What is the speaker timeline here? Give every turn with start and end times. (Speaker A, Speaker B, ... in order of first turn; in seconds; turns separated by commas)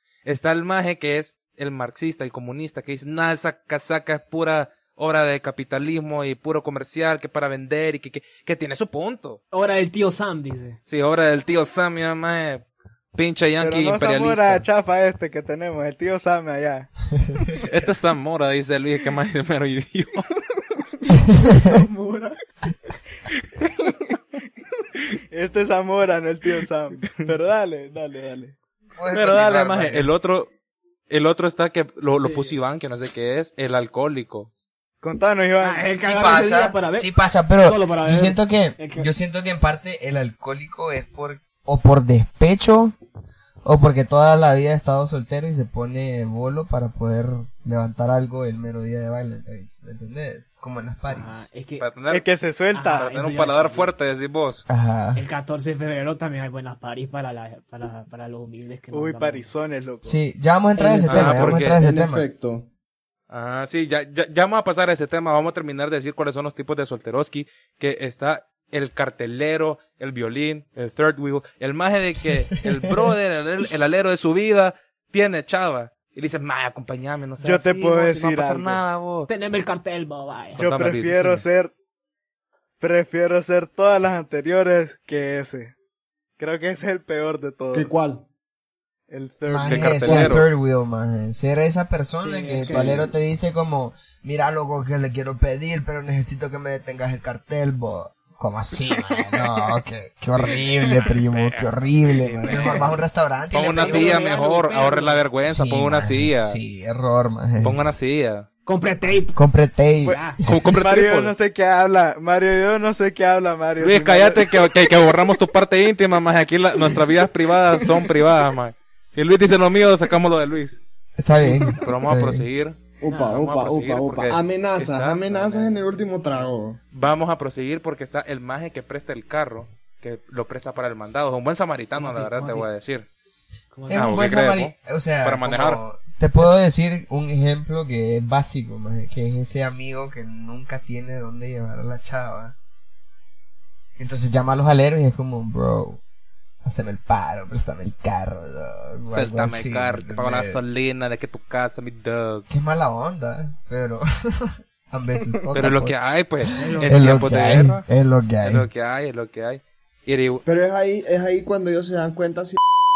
Speaker A: 0.2-9.4, Speaker B: 9.5-10.8, Speaker A: 10.9-14.7, Speaker C: 13.6-16.9, Speaker A: 17.5-20.3, Speaker D: 21.3-21.8, Speaker B: 21.3-22.4, Speaker C: 23.8-24.1, Speaker C: 25.3-28.6, Speaker D: 29.0-30.1, Speaker A: 29.1-30.5, Speaker A: 31.1-34.5, Speaker B: 32.2-32.6, Speaker C: 35.0-35.9, Speaker B: 35.6-39.1, Speaker D: 36.0-43.0, Speaker D: 43.6-51.5, Speaker B: 51.1-51.9, Speaker A: 51.8-52.2, Speaker C: 52.1-53.1, Speaker B: 52.7-53.9, Speaker A: 53.0-54.6, Speaker D: 54.7-55.2, Speaker B: 55.1-59.5, Speaker C: 58.9-60.2, Speaker D: 60.0-62.2, Speaker E: 60.8-62.7, Speaker A: 61.1-61.8, Speaker A: 63.3-79.3, Speaker D: 72.6-73.1, Speaker C: 77.4-78.8, Speaker B: 79.3-80.7, Speaker A: 80.6-81.5, Speaker C: 80.6-81.7, Speaker C: 82.8-85.7, Speaker C: 86.4-87.9, Speaker E: 87.7-88.2, Speaker C: 89.1-90.4, Speaker D: 89.5-104.2, Speaker A: 89.7-90.5, Speaker B: 92.2-92.8, Speaker C: 92.5-93.1, Speaker A: 100.3-102.9, Speaker C: 102.3-102.8, Speaker A: 103.5-106.6, Speaker B: 103.8-105.2, Speaker D: 105.5-107.8, Speaker A: 107.6-108.5, Speaker B: 108.7-109.4, Speaker D: 109.4-110.4, Speaker B: 110.0-110.4, Speaker A: 110.5-111.3, Speaker C: 110.8-114.7, Speaker A: 113.8-120.8, Speaker D: 121.2-122.5, Speaker A: 121.8-122.8, Speaker E: 123.0-126.8, Speaker B: 123.0-123.4, Speaker A: 123.3-125.9, Speaker A: 126.9-133.1, Speaker B: 132.0-132.7, Speaker B: 133.7-134.2, Speaker D: 133.9-142.6, Speaker A: 133.9-135.8, Speaker D: 144.0-146.0, Speaker D: 146.6-150.6, Speaker A: 149.1-152.5, Speaker D: 152.5-158.7, Speaker A: 155.6-157.8, Speaker B: 156.6-157.3, Speaker A: 158.4-160.4, Speaker E: 160.4-162.6